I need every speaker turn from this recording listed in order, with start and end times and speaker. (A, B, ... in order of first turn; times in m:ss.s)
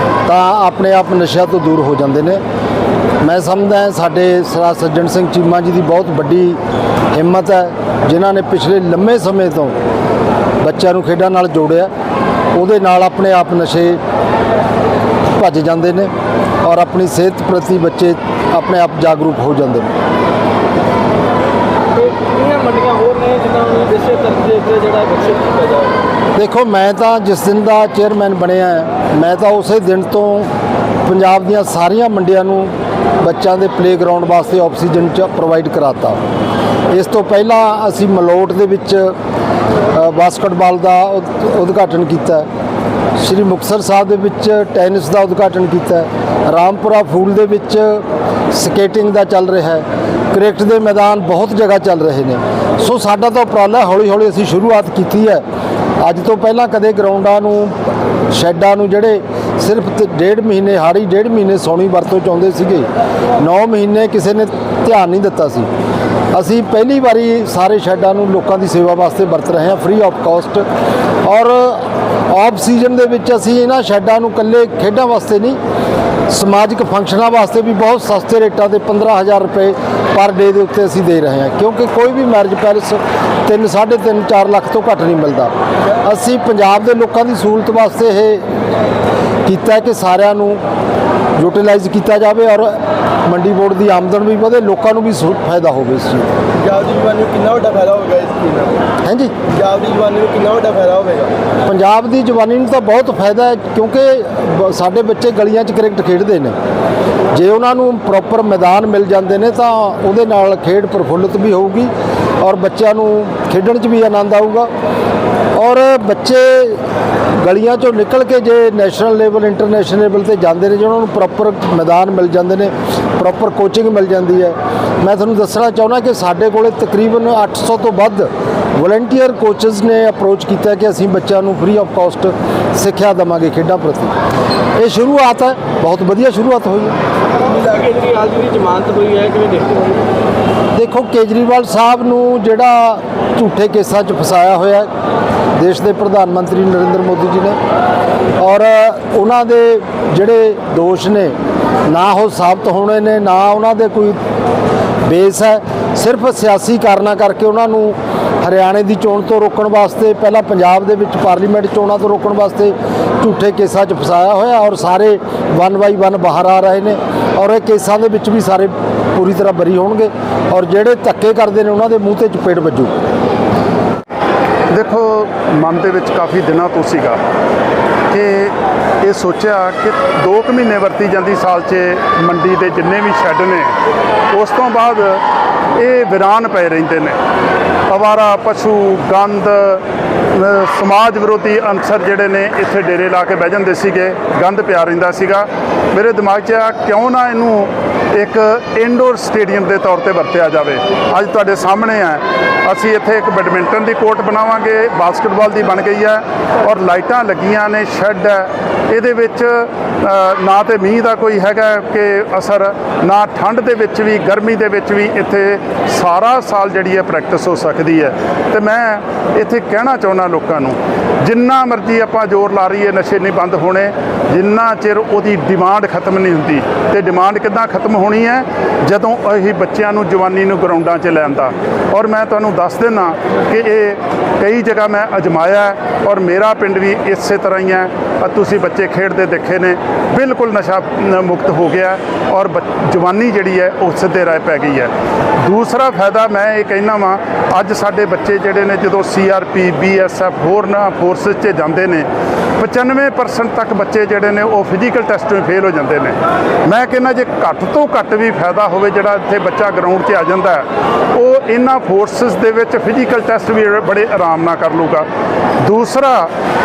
0:00.2-0:02.4 A
0:03.2-0:06.6 A
0:07.1-0:09.8 A
0:10.6-0:11.9 A
0:12.5-0:14.0 A
0:15.3-0:16.1 A
0:16.6-0:19.9 A
0:22.0-0:25.9 B
0:26.3-0:30.5 A
0:31.0-0:36.2 A
0:36.9-0:39.1 A
0:39.9-0:42.5 A
0:43.2-0:55.4 A
0:56.0-0:57.7 A
0:58.3-1:05.7 A
1:06.3-1:10.6 A
1:11.2-1:15.6 A
1:16.3-1:25.5 A
1:26.0-1:28.4 A
1:29.4-1:30.6 A
1:31.4-1:36.3 A
1:36.6-1:38.8 B
1:39.0-1:39.3 A
1:39.5-1:41.3 B
1:41.6-1:46.6 A
1:47.3-1:54.7 A
1:55.6-1:56.8 A
1:57.4-2:14.1 A
2:14.8-2:16.9 A
2:17.5-2:20.0 B
2:20.7-2:24.9 A
2:25.5-2:27.6 A
2:28.4-2:31.4 A
2:31.9-2:34.2 A
2:35.0-2:52.9 A
2:54.7-2:57.2 C
2:58.1-3:03.7 C
3:04.3-3:05.2 C
3:05.8-3:07.2 C
3:07.9-4:04.9 C
4:05.4-4:12.1 C
4:12.6-4:25.1 C
4:25.6-4:26.3 C